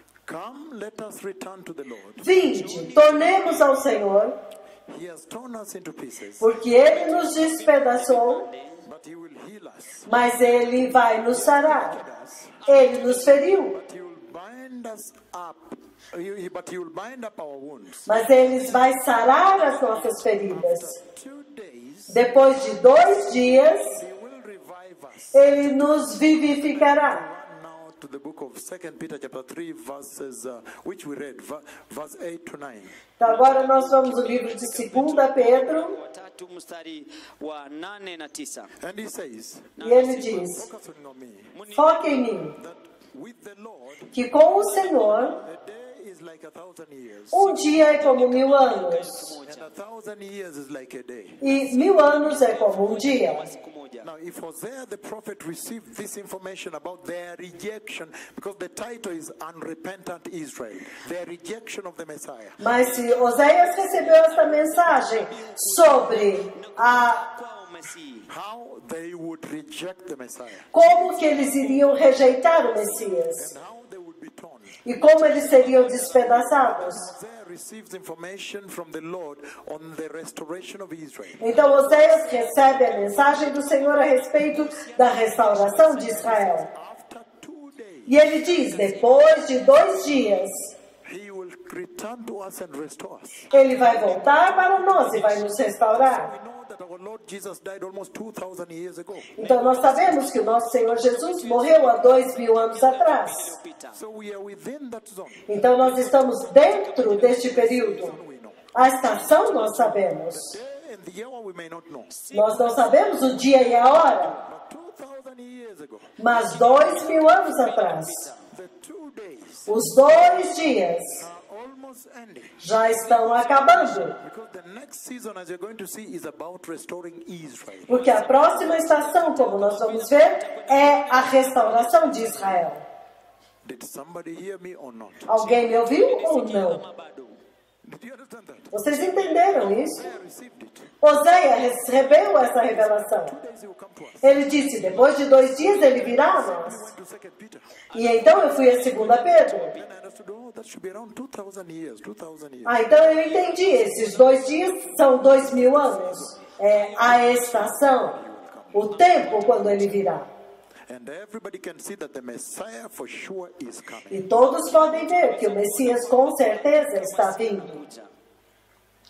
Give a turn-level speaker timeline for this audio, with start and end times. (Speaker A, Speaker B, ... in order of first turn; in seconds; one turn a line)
Speaker A: 0.2-2.9
Speaker B: 2.2-4.3
Speaker A: 4.9-6.5
Speaker B: 6.4-8.5
Speaker C: 6.9-8.8
Speaker A: 8.8-10.2
Speaker B: 10.1-12.0
Speaker A: 11.2-12.6
Speaker B: 12.7-13.8
Speaker A: 13.7-18.2
Speaker B: 18.1-21.0
Speaker A: 20.9-22.2
Speaker B: 22.1-24.0
Speaker A: 23.9-32.9
Speaker B: 25.3-27.2
Speaker B: 33.2-35.9
Speaker C: 34.8-38.7
Speaker A: 38.8-41.5
Speaker B: 39.8-40.6
Speaker C: 39.9-40.2
Speaker C: 41.5-42.0
Speaker B: 41.7-42.6
Speaker A: 42.5-44.1
Speaker B: 44.1-45.4
Speaker A: 45.3-48.0
Speaker B: 47.3-49.3
Speaker C: 48.1-49.7
Speaker A: 49.4-51.5
Speaker B: 51.4-53.5
Speaker C: 52.2-54.1
Speaker A: 54.0-62.6
Speaker B: 62.6-67.3
Speaker C: 65.2-68.3
Speaker A: 68.3-70.7
Speaker B: 70.7-73.5
Speaker A: 73.3-81.7
Speaker B: 74.8-77.1
Speaker B: 81.4-86.7
Speaker A: 84.8-89.0
Speaker B: 88.1-90.7
Speaker A: 91.0-93.5
Speaker B: 93.5-96.3
Speaker A: 94.9-99.7
Speaker B: 99.3-103.6
Speaker C: 101.2-102.0
Speaker C: 102.7-104.0
Speaker A: 103.9-105.8
Speaker B: 105.5-108.2
Speaker A: 107.1-108.7
Speaker B: 108.7-110.6
Speaker A: 110.3-112.5
Speaker B: 112.3-114.4
Speaker C: 112.5-112.9
Speaker A: 114.0-116.1
Speaker B: 116.2-118.3
Speaker C: 117.6-118.3
Speaker A: 118.4-120.0
Speaker B: 119.7-121.2
Speaker A: 121.2-128.1
Speaker B: 122.6-124.1
Speaker B: 127.9-132.8
Speaker C: 128.5-132.4
Speaker A: 133.6-135.6
Speaker B: 135.3-136.8
Speaker C: 135.7-137.4
Speaker A: 137.8-140.9
Speaker B: 138.7-140.1
Speaker B: 141.0-143.3
Speaker A: 142.5-144.8
Speaker B: 144.2-146.8
Speaker A: 145.7-147.8
Speaker B: 147.9-149.7
Speaker A: 149.7-152.8
Speaker B: 152.6-158.2
Speaker A: 155.2-159.2
Speaker B: 158.7-160.3
Speaker A: 160.9-164.3
Speaker B: 164.1-167.8
Speaker C: 165.0-168.1